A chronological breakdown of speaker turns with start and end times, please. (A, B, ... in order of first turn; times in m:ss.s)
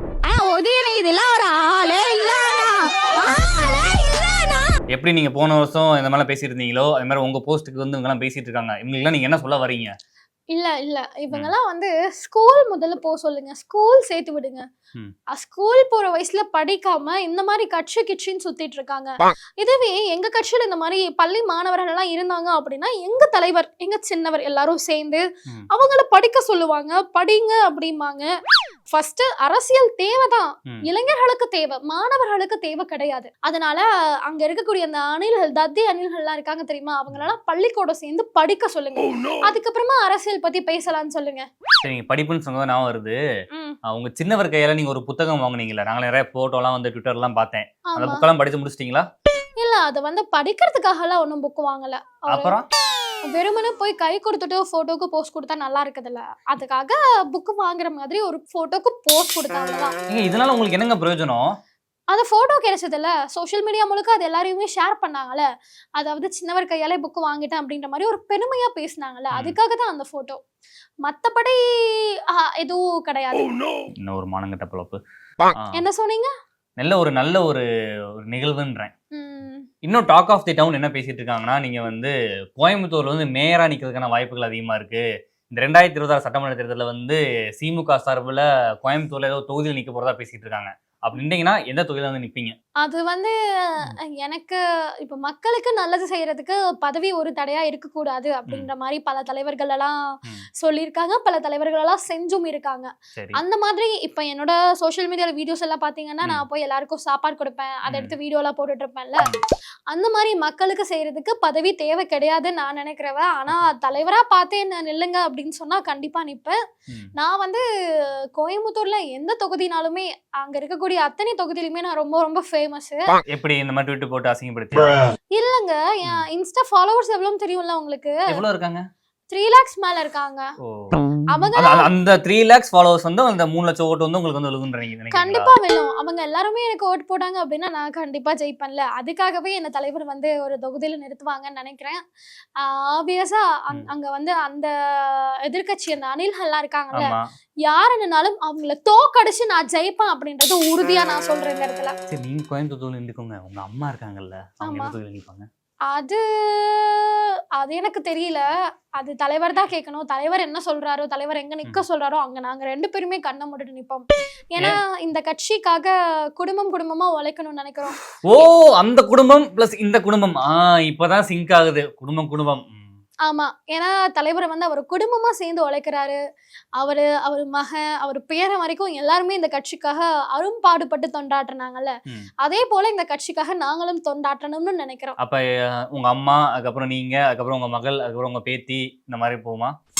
0:00.2-0:04.7 A
0:04.9-0:09.9 B
0:10.5-0:14.6 C
0:15.3-0:28.3 C
0:28.9-0:41.4 C
0:41.8-0:43.2 B
0:43.9-0:49.0 B
0:47.9-0:48.2 C
0:49.6-0:52.5 C
0:52.3-0:52.6 B
0:53.3-0:59.9 C
1:00.1-1:01.4 B
1:02.1-1:05.4 C
1:06.0-1:10.4 C
1:11.0-1:13.6 C
1:14.0-1:15.0 B
1:15.5-1:15.8 B
1:15.7-1:16.3 C
1:16.8-1:17.6 B
1:18.3-1:18.9 B
1:19.1-1:19.6 C
1:19.8-1:32.5 B
1:32.8-1:40.0 C
1:40.6-1:49.3 C
1:43.2-1:43.4 B
1:47.9-1:48.1 B
1:49.9-1:56.6 C
1:57.2-2:03.2 C
2:03.3-2:05.0 B
2:05.3-2:08.4 C
2:08.3-2:08.8 B
2:09.3-2:10.5 C
2:10.6-2:11.0 B
2:11.3-2:11.9 C
2:11.6-2:15.5 B
2:15.1-2:22.0 C
2:22.6-2:27.1 C
2:26.9-2:27.2 B
2:27.6-2:31.9 C
2:32.1-2:35.5 B
2:34.6-2:34.9 C
2:35.9-2:38.4 C
2:39.0-2:48.0 C
2:48.2-2:53.0 B
2:53.2-2:56.2 C
2:56.8-3:05.2 C
3:05.9-3:09.7 B